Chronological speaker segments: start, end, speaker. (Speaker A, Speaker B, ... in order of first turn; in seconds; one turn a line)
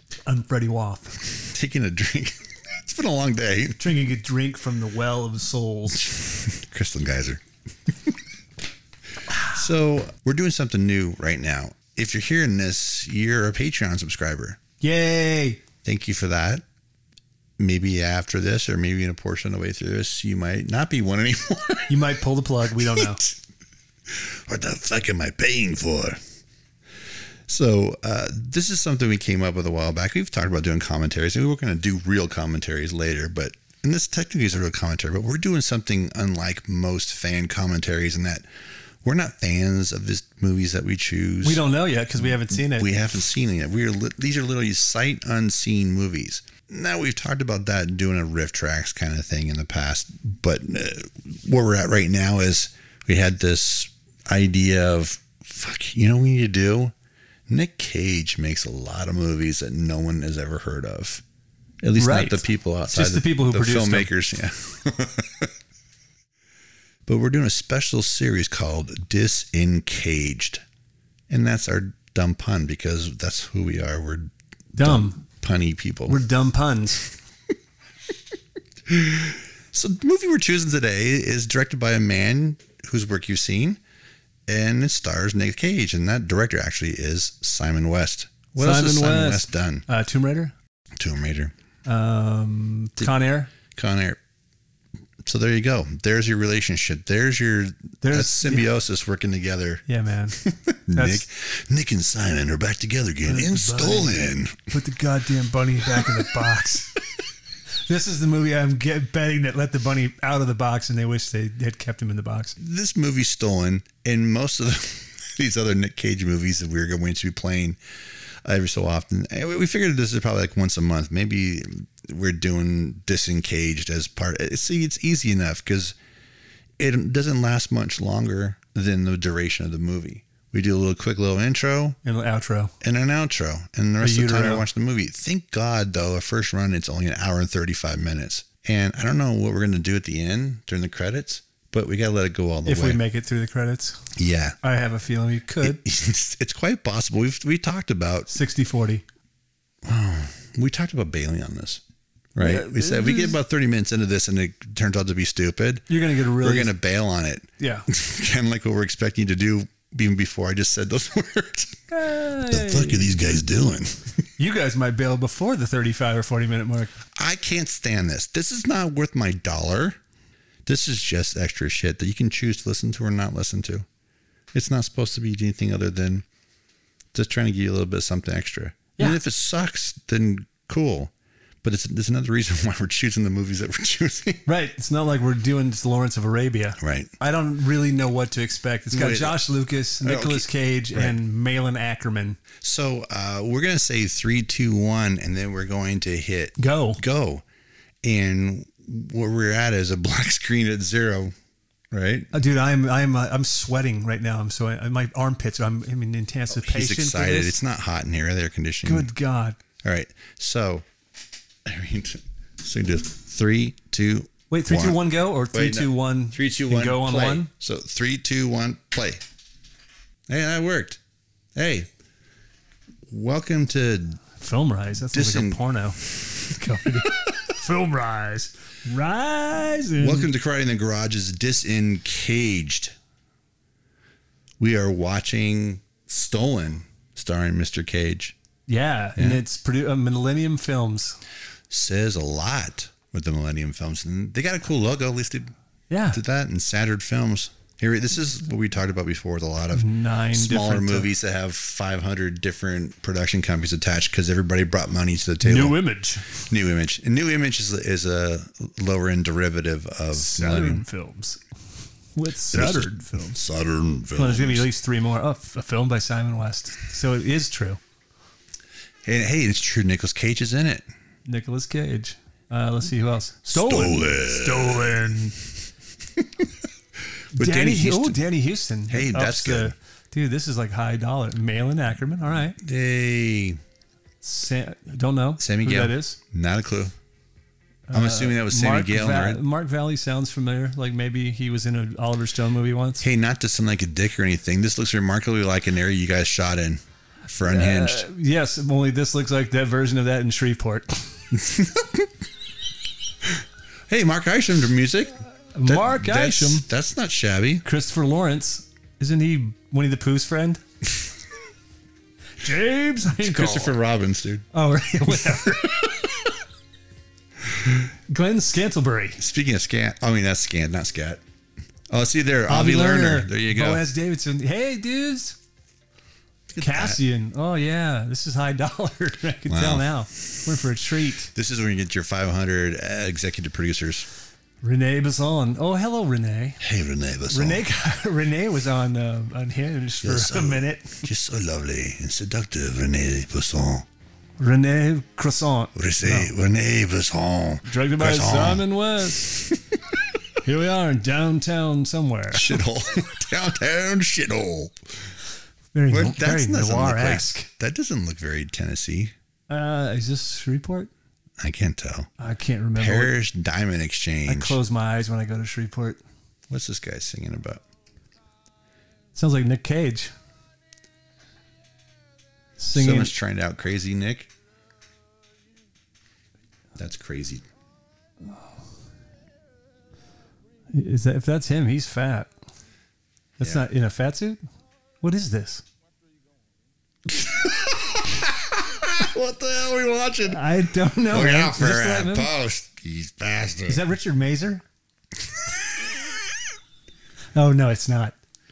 Speaker A: 0.3-1.2
Speaker B: 1.2-3.9
Speaker A: 3.8-6.1
Speaker B: 6.0-7.4
Speaker B: 9.5-14.6
Speaker A: 14.8-15.6
Speaker B: 15.8-16.6
Speaker B: 17.6-22.1
Speaker A: 21.9-23.2
Speaker B: 22.8-23.4
Speaker B: 24.1-26.2
Speaker B: 27.5-38.5
Speaker B: 39.0-41.6
Speaker A: 41.4-42.9
Speaker B: 42.2-56.9
Speaker B: 57.5-61.2
Speaker B: 61.8-65.5
Speaker A: 62.0-64.1
Speaker B: 67.1-70.6
Speaker B: 71.3-76.2
Speaker A: 74.8-75.2
Speaker A: 76.1-77.1
Speaker B: 78.9-83.8
Speaker B: 84.5-89.8
Speaker A: 88.6-90.5
Speaker B: 91.0-91.5
Speaker A: 91.8-93.5
Speaker B: 93.7-94.2
Speaker B: 95.2-99.8
Speaker A: 98.0-98.7
Speaker A: 99.9-100.4
Speaker B: 100.4-104.7
Speaker A: 100.9-101.3
Speaker A: 103.3-104.2
Speaker A: 104.7-107.0
Speaker A: 107.9-112.6
Speaker B: 112.6-117.8
Speaker B: 118.5-126.0
Speaker B: 126.8-132.0
Speaker A: 132.0-132.7
Speaker B: 132.8-143.0
Speaker A: 134.0-134.7
Speaker A: 142.7-144.1
Speaker B: 144.2-144.6
Speaker A: 144.6-145.8
Speaker B: 145.6-148.3
Speaker A: 148.3-149.1
Speaker B: 149.8-151.8
Speaker B: 152.3-164.3
Speaker A: 152.4-153.4
Speaker A: 155.9-156.7
Speaker A: 157.6-157.9
Speaker A: 161.9-163.1
Speaker A: 164.4-166.9
Speaker B: 167.1-170.0
Speaker B: 170.7-173.9
Speaker B: 174.5-176.2
Speaker B: 177.1-181.1
Speaker B: 181.6-184.4
Speaker A: 184.5-192.4
Speaker B: 186.8-187.1
Speaker B: 188.9-189.5
Speaker B: 190.0-191.2
Speaker B: 192.6-197.4
Speaker A: 196.6-197.0
Speaker B: 198.0-201.3
Speaker B: 201.9-202.3
Speaker A: 202.3-207.6
Speaker B: 206.5-209.1
Speaker A: 208.8-209.6
Speaker B: 209.8-210.9
Speaker B: 211.7-219.2
Speaker A: 214.5-217.5
Speaker B: 220.3-221.0
Speaker B: 221.6-221.9
Speaker B: 223.1-224.2
Speaker A: 224.4-230.3
Speaker B: 225.1-225.6
Speaker B: 230.0-233.0
Speaker B: 234.6-238.3
Speaker A: 238.7-241.2
Speaker B: 239.2-239.4
Speaker B: 241.7-245.5
Speaker A: 245.9-246.2
Speaker B: 246.1-260.8
Speaker A: 249.7-251.1
Speaker A: 255.4-256.4
Speaker A: 260.1-261.4
Speaker A: 262.1-263.4
Speaker B: 262.5-264.7
Speaker A: 264.2-267.8
Speaker B: 269.1-270.9
Speaker A: 271.3-275.4
Speaker B: 273.4-275.1
Speaker B: 276.2-276.5
Speaker B: 277.3-278.2
Speaker A: 277.3-282.6
Speaker B: 278.9-279.8
Speaker B: 282.6-283.6
Speaker A: 284.2-286.2
Speaker B: 285.4-286.9
Speaker A: 287.9-293.1
Speaker B: 287.9-289.4
Speaker B: 293.0-298.1
Speaker A: 297.4-301.2
Speaker B: 301.3-302.1
Speaker B: 303.2-307.6
Speaker A: 305.5-306.7
Speaker A: 307.6-310.6
Speaker A: 312.4-313.8
Speaker B: 313.2-314.5
Speaker A: 314.5-315.9
Speaker B: 315.1-316.1
Speaker A: 317.8-319.2
Speaker B: 319.2-321.2
Speaker B: 321.9-323.9
Speaker A: 322.5-325.4
Speaker B: 326.5-327.0
Speaker A: 326.6-331.3
Speaker B: 329.5-329.9
Speaker B: 331.3-334.1
Speaker A: 334.6-336.6
Speaker B: 336.6-337.6
Speaker A: 337.3-341.1
Speaker B: 340.0-343.9
Speaker A: 344.4-346.3
Speaker B: 345.8-348.7
Speaker A: 347.7-349.5
Speaker B: 349.3-349.8
Speaker A: 350.4-352.6
Speaker B: 352.3-354.8
Speaker A: 355.7-357.5
Speaker B: 355.9-359.1
Speaker A: 359.5-360.9
Speaker B: 361.4-362.1
Speaker A: 362.2-363.1
Speaker B: 362.8-364.6
Speaker A: 364.3-366.0
Speaker B: 366.5-367.6
Speaker A: 369.1-370.1
Speaker A: 372.6-373.1
Speaker B: 372.7-374.3
Speaker B: 376.8-377.4
Speaker A: 380.7-382.3
Speaker B: 383.4-383.7
Speaker A: 383.4-384.4
Speaker A: 385.0-385.6
Speaker B: 387.1-390.6
Speaker A: 390.2-392.3
Speaker B: 391.1-393.9
Speaker A: 393.7-394.6
Speaker A: 397.4-398.2